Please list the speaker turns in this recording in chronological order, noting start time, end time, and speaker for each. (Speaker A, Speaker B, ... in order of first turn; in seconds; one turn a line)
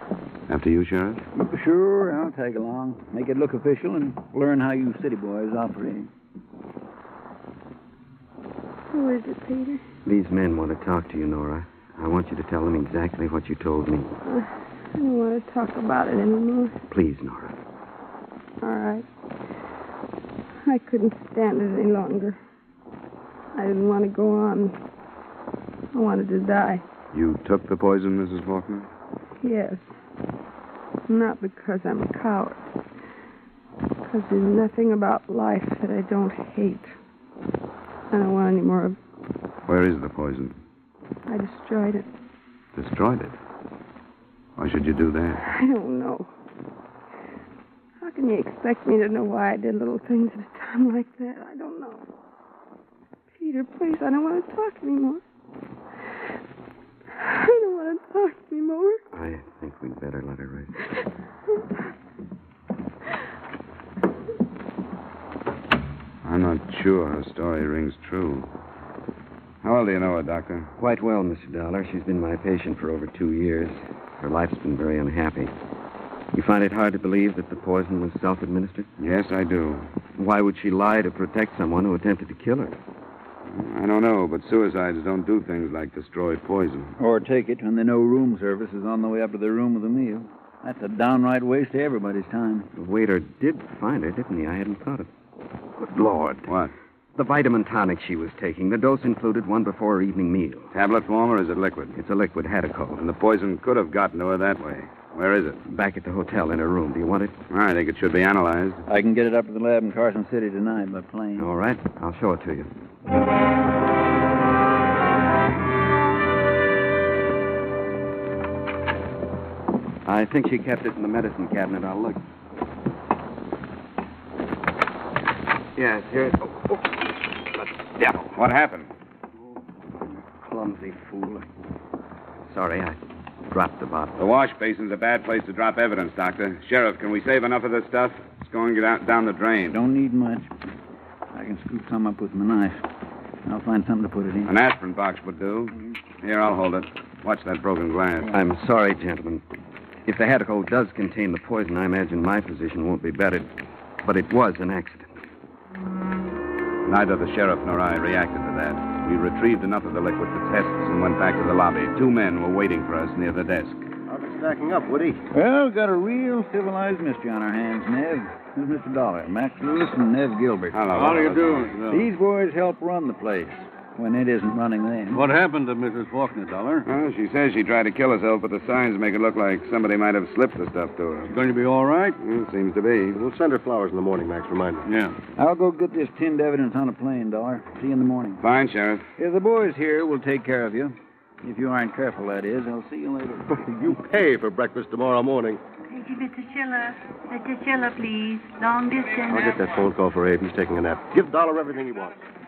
Speaker A: 0.5-1.2
Speaker B: 1.4-6.1
Speaker C: 8.9-9.8
Speaker D: 10.0-14.1
Speaker C: 14.2-16.8
Speaker D: 16.9-17.6
Speaker C: 18.6-19.0
Speaker C: 20.6-22.4
Speaker C: 23.5-24.8
Speaker C: 25.9-26.8
Speaker A: 27.1-28.9
Speaker C: 29.4-29.9
Speaker C: 31.1-32.7
Speaker C: 34.0-36.9
Speaker C: 38.1-39.0
Speaker A: 39.7-40.5
Speaker C: 41.3-42.1
Speaker A: 42.8-43.4
Speaker A: 44.6-45.4
Speaker C: 45.5-46.3
Speaker C: 48.0-52.0
Speaker C: 53.3-55.2
Speaker C: 57.2-59.0
Speaker D: 59.1-60.7
Speaker A: 66.2-68.5
Speaker A: 69.6-70.7
Speaker D: 70.8-75.5
Speaker D: 76.3-78.9
Speaker A: 79.0-79.9
Speaker D: 80.2-82.8
Speaker A: 83.5-86.9
Speaker B: 87.0-92.7
Speaker D: 92.8-95.1
Speaker D: 95.8-96.5
Speaker A: 96.5-96.7
Speaker D: 97.2-100.7
Speaker A: 100.7-101.9
Speaker D: 102.0-103.0
Speaker A: 103.0-105.6
Speaker D: 105.7-107.3
Speaker A: 107.5-108.8
Speaker B: 108.9-111.5
Speaker D: 111.4-112.7
Speaker D: 120.0-122.2
Speaker D: 125.8-127.0
Speaker D: 127.5-128.3
Speaker A: 128.3-128.9
Speaker D: 130.3-131.5
Speaker D: 132.5-133.0
Speaker D: 133.5-134.1
Speaker A: 134.2-139.8
Speaker B: 139.7-140.5
Speaker B: 141.3-142.8
Speaker B: 143.4-144.5
Speaker A: 144.4-148.3
Speaker D: 148.3-149.4
Speaker D: 150.1-153.5
Speaker D: 154.0-155.2
Speaker A: 156.8-163.8
Speaker E: 164.1-165.2
Speaker B: 165.3-170.8
Speaker A: 170.7-171.7
Speaker F: 170.9-172.1
Speaker B: 171.9-175.2
Speaker F: 175.1-176.9
Speaker A: 176.8-181.3
Speaker F: 181.3-182.2
Speaker A: 182.2-183.2
Speaker E: 183.1-184.8
Speaker F: 184.8-185.2
Speaker B: 185.4-188.4
Speaker A: 188.4-189.1
Speaker B: 189.2-193.5
Speaker E: 193.5-195.6
Speaker G: 195.9-199.7
Speaker E: 199.3-202.2